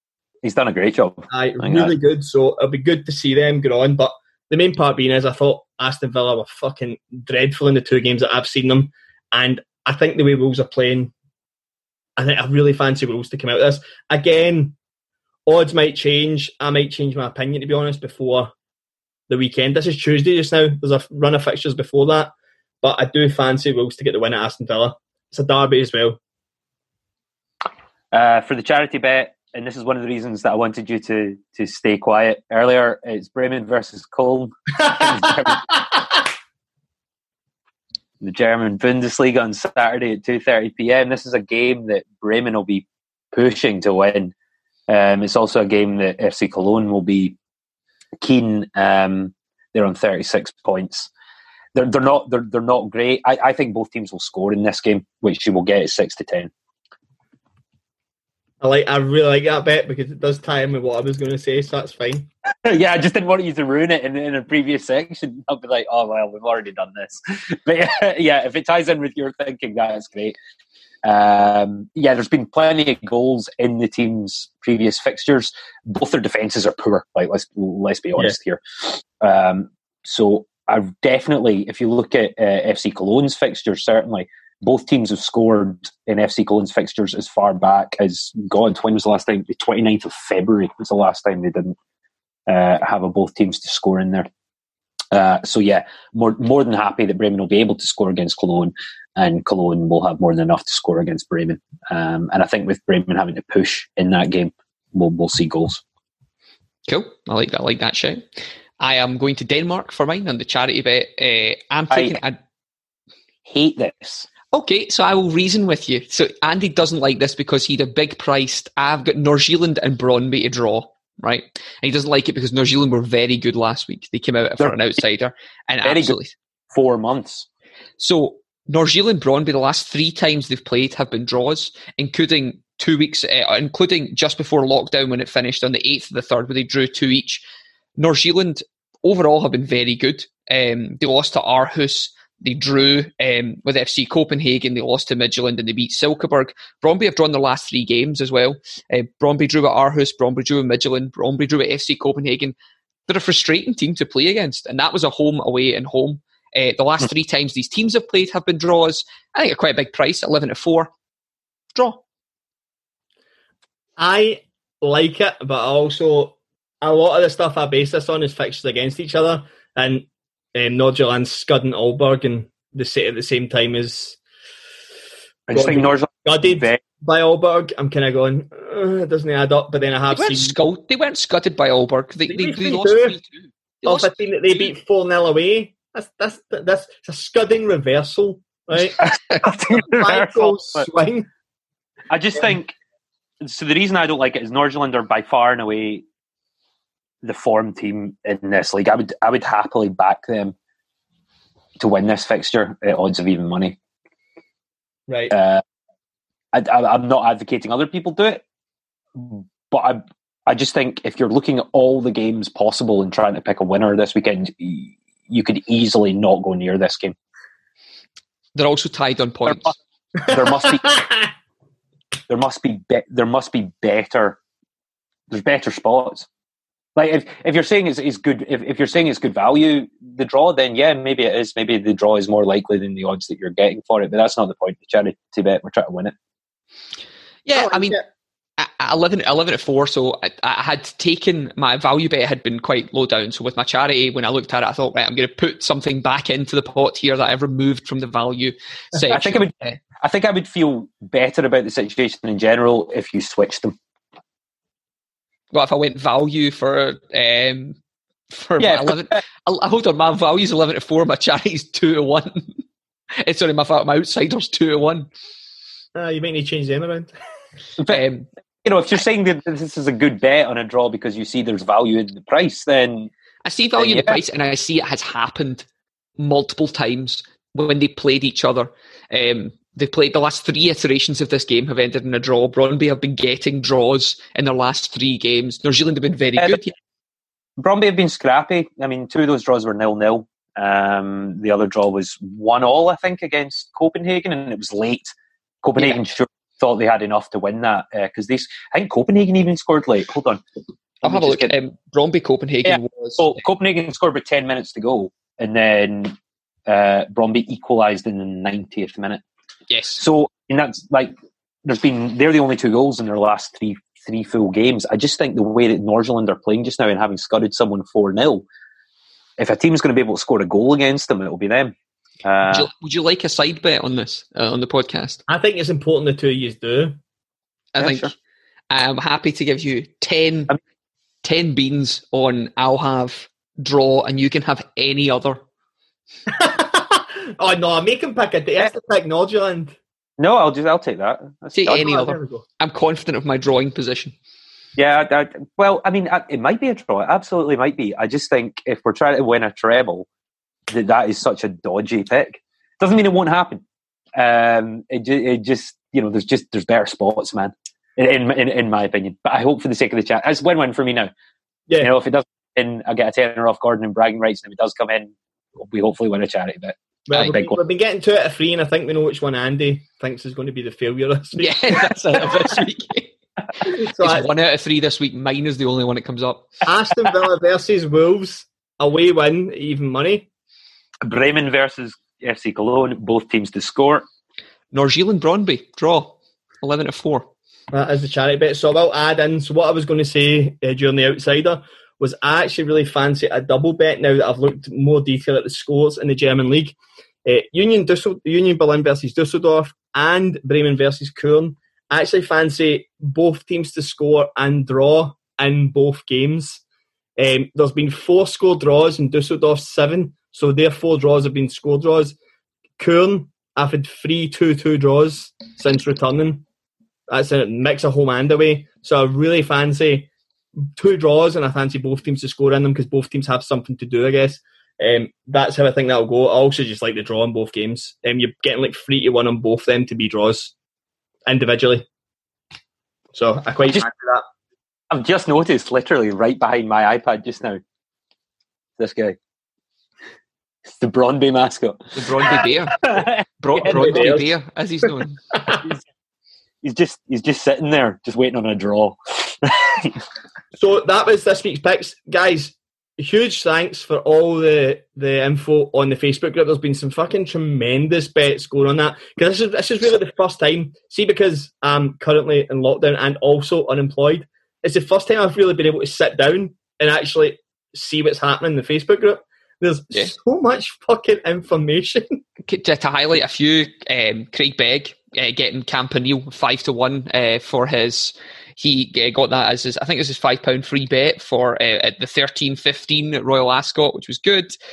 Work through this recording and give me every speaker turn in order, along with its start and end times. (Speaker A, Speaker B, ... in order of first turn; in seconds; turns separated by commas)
Speaker A: 0.4-1.9, Speaker B: 1.3-11.1, Speaker B: 12.2-14.7, Speaker B: 15.4-18.5, Speaker B: 19.3-26.2, Speaker A: 28.1-35.6, Speaker A: 38.2-44.3, Speaker A: 44.9-47.4, Speaker A: 48.2-51.1, Speaker A: 51.7-56.5, Speaker B: 58.6-62.3, Speaker A: 62.6-70.3, Speaker A: 71.0-91.8, Speaker A: 92.5-94.3, Speaker A: 95.1-105.8, Speaker C: 106.9-108.2, Speaker C: 108.8-112.4, Speaker A: 111.9-112.2, Speaker A: 113.4-114.3, Speaker C: 114.5-126.3, Speaker A: 125.8-126.2, Speaker A: 126.7-127.5, Speaker C: 128.0-137.4, Speaker C: 138.0-152.5, Speaker C: 153.1-160.9, Speaker C: 161.7-162.0, Speaker B: 164.0-174.2, Speaker A: 175.5-176.8, Speaker B: 175.5-180.6, Speaker C: 180.1-184.1, Speaker B: 182.3-183.2, Speaker B: 183.8-191.3, Speaker A: 189.0-190.8, Speaker A: 192.1-192.7, Speaker A: 193.4-196.0, Speaker A: 197.2-200.5, Speaker A: 201.8-203.8, Speaker B: 205.1-205.3, Speaker A: 205.3-205.6, Speaker A: 206.5-208.4, Speaker A: 209.1-217.1, Speaker C: 218.5-219.7, Speaker A: 220.2-221.0, Speaker B: 220.8-221.2, Speaker A: 222.3-224.4, Speaker A: 225.3-226.3, Speaker A: 226.9-236.1, Speaker C: 237.4-238.0, Speaker B: 237.5-238.0, Speaker C: 238.6-249.8, Speaker A: 249.1-253.7, Speaker C: 255.5-257.8, Speaker C: 258.3-262.5, Speaker A: 258.6-259.2, Speaker C: 263.2-265.1, Speaker B: 265.9-267.1, Speaker C: 267.9-268.3, Speaker A: 268.6-273.1, Speaker C: 273.4-275.6, Speaker A: 273.8-274.2, Speaker C: 276.2-286.7, Speaker A: 287.6-295.1, Speaker A: 295.6-300.4, Speaker A: 301.0-301.5, Speaker C: 301.0-303.4, Speaker A: 302.6-306.1, Speaker A: 306.7-309.2, Speaker C: 309.7-310.0, Speaker A: 310.0-318.4, Speaker A: 319.4-321.7, Speaker A: 322.2-322.7, Speaker C: 322.5-325.2, Speaker B: 325.3-327.0, Speaker C: 327.7-328.1, Speaker A: 327.8-328.1, Speaker C: 328.7-330.5, Speaker C: 331.2-335.4, Speaker B: 336.3-339.8, Speaker A: 340.2-342.0, Speaker C: 341.5-344.1, Speaker B: 341.7-342.4, Speaker A: 344.8-350.1, Speaker A: 350.7-353.6, Speaker A: 354.1-361.1, Speaker A: 361.8-367.6, Speaker B: 367.1-371.9, Speaker C: 371.4-376.5, Speaker B: 373.7-374.3, Speaker B: 376.6-380.3, Speaker A: 381.0-384.0, Speaker C: 384.7-387.3, Speaker B: 387.7-406.6, Speaker B: 407.2-412.1, Speaker B: 412.8-416.4, Speaker B: 417.1-420.1, Speaker B: 420.6-430.5, Speaker B: 431.2-431.9, Speaker B: 433.1-434.2, Speaker A: 434.9-437.6, Speaker A: 438.8-439.2, Speaker A: 440.8-441.9, Speaker C: 441.9-442.8, Speaker A: 442.8-444.1, Speaker C: 443.4-445.4, Speaker B: 443.6-444.3, Speaker A: 446.6-450.0, Speaker B: 450.6-472.2, Speaker C: 472.5-484.6